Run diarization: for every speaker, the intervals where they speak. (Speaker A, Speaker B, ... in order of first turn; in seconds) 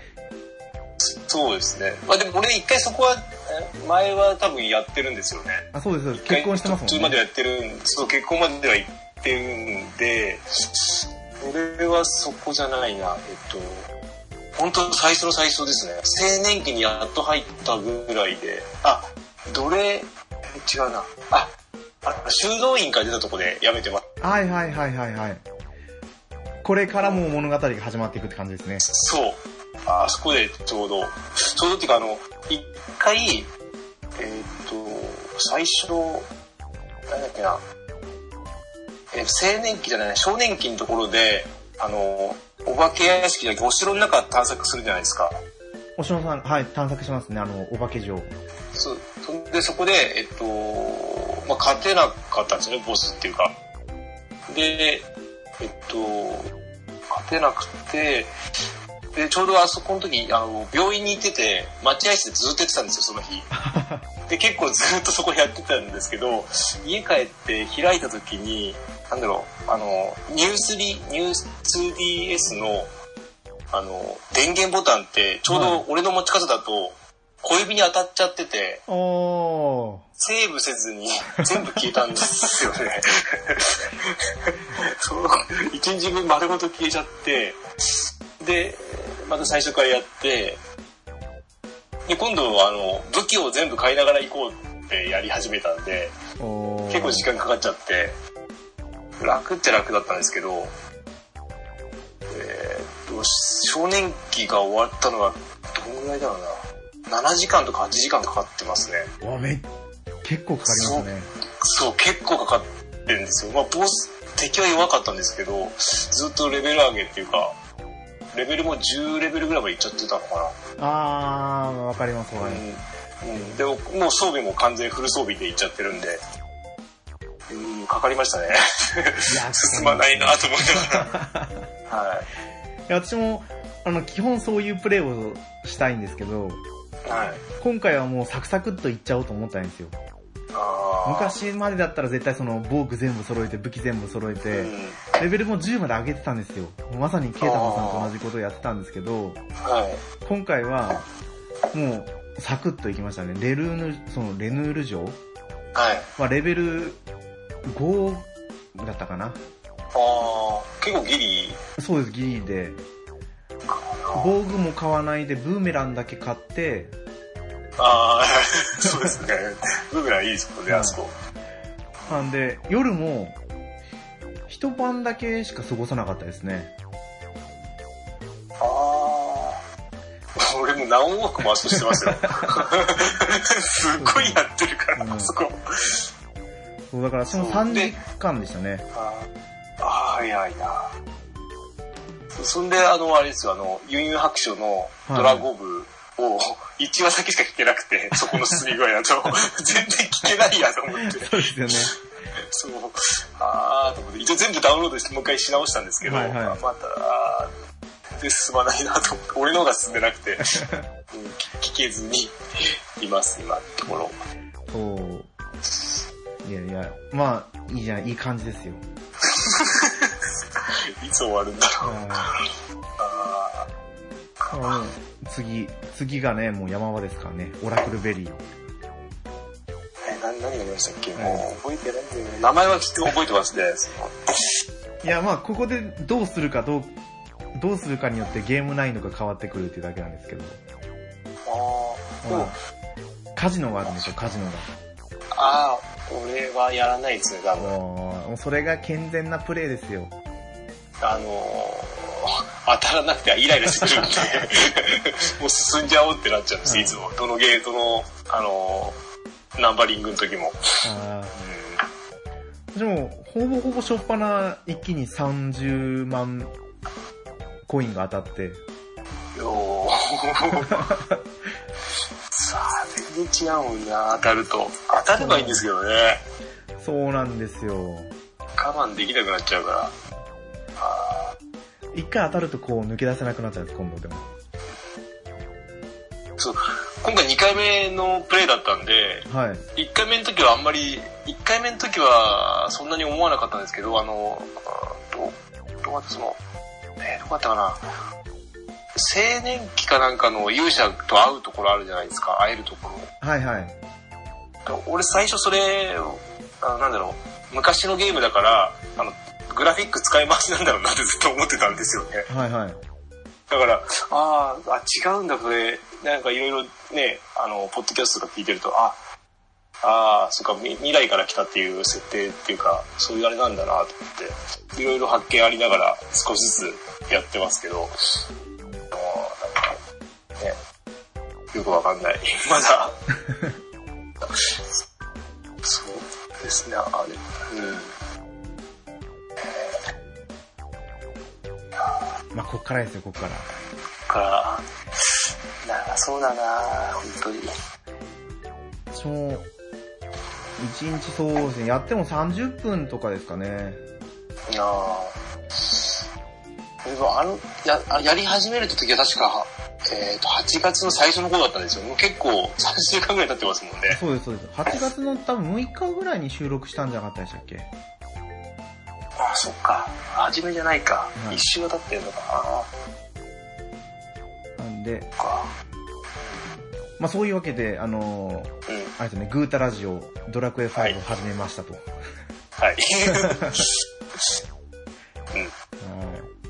Speaker A: 1.0-13.9, 14.6-24.0, 28.8-33.5, 34.2-36.3, 37.1-37.6, 39.1-45.4, 48.7-53.5, 54.5-56.5, 57.1-58.3, 59.1-63.5, 64.3-72.9, 73.7-78.8, 80.2-90.6, 92.0-96.1, 96.9-98.2, 99.2-100.7, 102.3-109.1, 110.6-111.1, 111.6-117.5, 118.3-120.6, 122.4-126.2, 127.5-131.1, 131.9-132.3, 137.0-137.4, 140.5-141.4, 144.5-145.0, 147.4-148.1, 149.6-150.0, 155.7-156.1, 159.9-161.6, 163.7-164.3, 167.8-171.1, 178.6-179.6, 180.3-186.1, 187.3-188.0, 188.9-189.3, 189.8-190.9, 192.3-201.7, 202.3-207.5, 208.2-214.2, 215.7-216.0, 219.2-223.7, 224.4-224.7, 230.0-234.4, 241.4-242.5, 245.3-247.7, 251.0-259.0, 259.6-260.6, 261.3-261.9, 269.3-270.9, 272.3-276.2, 278.6-279.9, 280.8-281.3, 286.4-296.4, 297.0-297.8, 298.9-303.1, 304.6-312.3, 313.5-319.0, 319.8-328.2, 328.9-329.8, 331.5-333.0, 334.2-334.8, 335.6-337.9, 339.4-339.8, 344.1-347.5, 354.5-356.0, 356.8-364.0, 369.2-372.7, 375.2-375.5, 378.7-378.9, 382.6-384.3
Speaker B: 5.7-7.2, 24.2-25.4, 26.6-28.9, 46.0-48.3, 63.5-64.1, 75.5-75.8, 78.9-80.0, 96.4-97.3, 109.2-109.7, 110.2-111.3, 120.8-122.6, 129.3-131.6, 132.9-136.6, 137.6-139.9, 141.0-149.4, 150.2-151.0, 151.7-155.2, 156.2-157.0, 157.7-159.4, 161.8-162.8, 164.1-166.9, 170.7-171.0, 172.1-173.4, 174.5-176.7, 184.0-184.4, 184.9-185.3, 186.9-188.8, 195.1-195.5, 200.9-201.9, 206.0-206.6, 210.4-210.8, 214.7-215.3, 216.4-218.8, 221.8-222.3, 224.5-228.4, 231.2-231.5, 235.0-236.9, 237.5-240.6, 242.2-242.6, 243.3-244.7, 247.6-250.1, 256.6-257.0, 260.8-261.4, 262.7-266.5, 267.7-268.6, 270.8-271.2, 275.2-275.6, 276.8-278.1, 281.9-284.3, 289.3-289.7, 303.2-303.7, 312.3-312.8, 342.3-343.5, 348.9-349.5, 350.6-353.8, 363.9-367.7, 371.2-371.4, 374.6-375.1, 377.0-381.8, 383.1-383.6, 385.8-386.3